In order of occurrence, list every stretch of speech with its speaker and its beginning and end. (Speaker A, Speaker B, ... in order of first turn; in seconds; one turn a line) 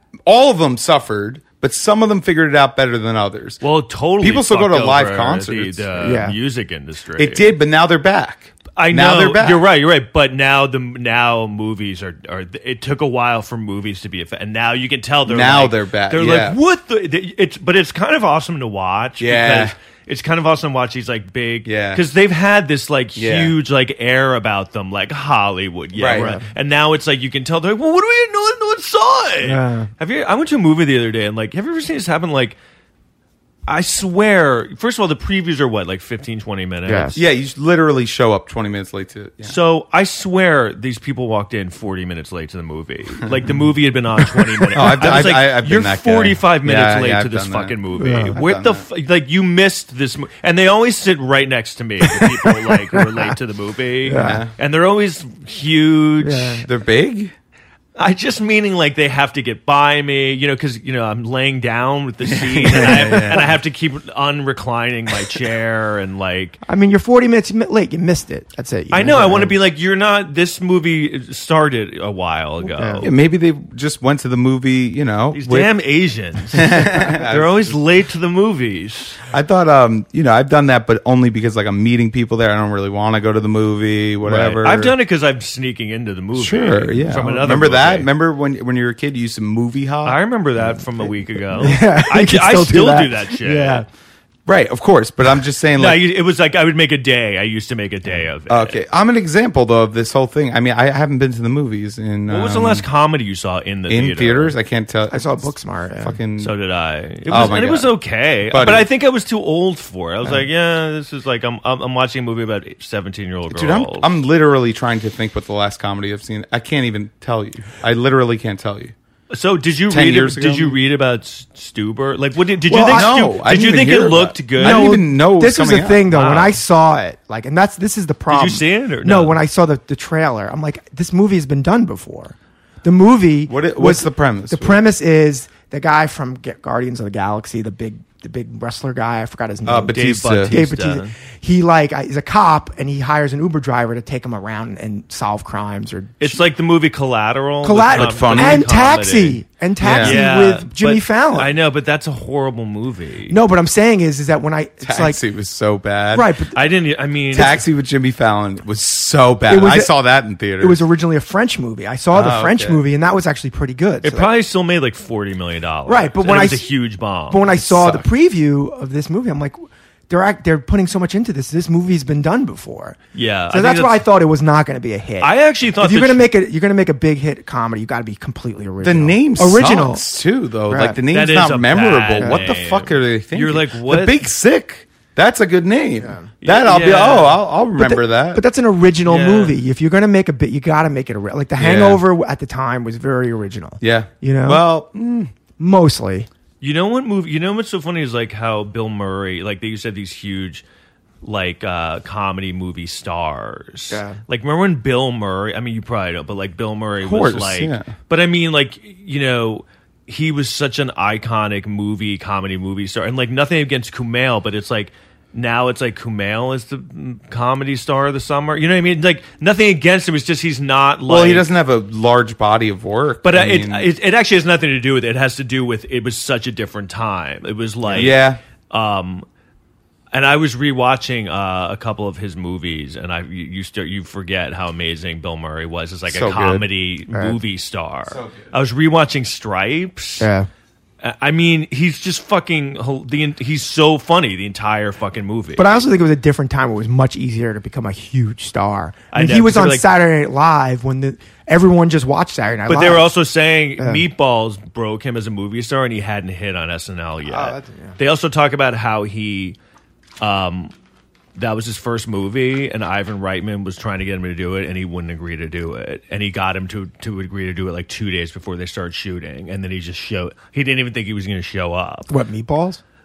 Speaker A: 0.2-3.6
Speaker B: 3.6-7.5
Speaker A: 4.2-6.2
Speaker C: 6.0-6.3
Speaker A: 7.2-9.7
Speaker B: 8.8-32.6
Speaker A: 15.2-16.6
Speaker A: 19.2-19.7
Speaker A: 21.6-22.0
Speaker A: 23.1-23.5
Speaker A: 25.9-26.4
Speaker C: 26.1-26.4
Speaker C: 29.4-29.9
Speaker B: 33.7-37.2
Speaker C: 36.9-37.2
Speaker A: 37.1-39.6
Speaker B: 39.4-56.6
Speaker A: 44.7-47.8
Speaker C: 48.0-48.4
Speaker A: 48.3-48.8
Speaker C: 52.0-53.2
Speaker C: 54.0-54.4
Speaker A: 54.1-54.5
Speaker C: 56.2-56.6
Speaker A: 56.6-57.3
Speaker B: 58.0-66.6
Speaker A: 62.2-63.5
Speaker C: 62.7-63.5
Speaker C: 66.7-69.6
Speaker B: 68.9-73.1
Speaker C: 72.7-73.1
Speaker A: 73.0-75.7
Speaker B: 75.3-79.2
Speaker A: 76.5-77.8
Speaker A: 79.3-84.9
Speaker B: 84.2-88.1
Speaker A: 86.3-90.2
Speaker B: 90.0-93.8
Speaker C: 91.5-93.8
Speaker A: 94.5-96.0
Speaker B: 95.8-98.8
Speaker A: 98.5-102.8
Speaker B: 102.3-104.5
Speaker A: 103.9-106.5
Speaker C: 105.1-106.2
Speaker B: 106.4-114.1
Speaker A: 107.2-107.9
Speaker A: 108.5-108.9
Speaker A: 113.5-118.9
Speaker B: 119.3-124.9
Speaker A: 119.9-120.8
Speaker C: 122.7-123.2
Speaker A: 122.8-126.2
Speaker C: 124.6-146.4
Speaker B: 126.1-126.6
Speaker B: 128.3-129.4
Speaker A: 133.4-134.8
Speaker A: 139.7-140.6
Speaker B: 139.9-141.1
Speaker B: 146.2-149.4
Speaker C: 147.6-151.5
Speaker A: 147.9-148.7
Speaker A: 149.8-150.2
Speaker B: 149.9-153.4
Speaker C: 153.3-155.2
Speaker A: 154.8-156.3
Speaker C: 156.1-156.6
Speaker B: 156.5-157.6
Speaker A: 157.3-160.8
Speaker C: 159.5-159.9
Speaker C: 160.6-164.3
Speaker A: 162.1-162.8
Speaker B: 164.0-168.0
Speaker C: 165.8-166.7
Speaker C: 167.3-173.0
Speaker B: 173.1-174.0
Speaker C: 173.5-180.0
Speaker B: 175.2-176.3
Speaker A: 178.8-188.4
Speaker C: 180.7-181.0
Speaker B: 181.1-184.2
Speaker C: 182.2-182.4
Speaker C: 186.0-186.3
Speaker B: 186.4-187.4
Speaker C: 187.8-194.6
Speaker B: 189.1-189.6
Speaker A: 191.6-192.0
Speaker A: 193.8-195.3
Speaker C: 195.6-196.3
Speaker B: 196.6-200.6
Speaker B: 201.2-221.5
Speaker C: 203.9-204.2
Speaker A: 207.0-207.9
Speaker A: 221.1-223.9
Speaker B: 223.2-229.2
Speaker A: 227.9-228.4
Speaker B: 230.1-240.3
Speaker A: 236.1-236.7
Speaker C: 237.1-237.4
Speaker A: 238.1-238.5
Speaker C: 240.2-240.5
Speaker B: 241.0-245.7
Speaker C: 245.6-253.1
Speaker B: 249.1-249.9
Speaker B: 252.7-259.6
Speaker C: 253.8-254.0
Speaker C: 257.2-257.9
Speaker B: 260.2-260.7
Speaker B: 261.3-272.1
Speaker C: 272.1-272.8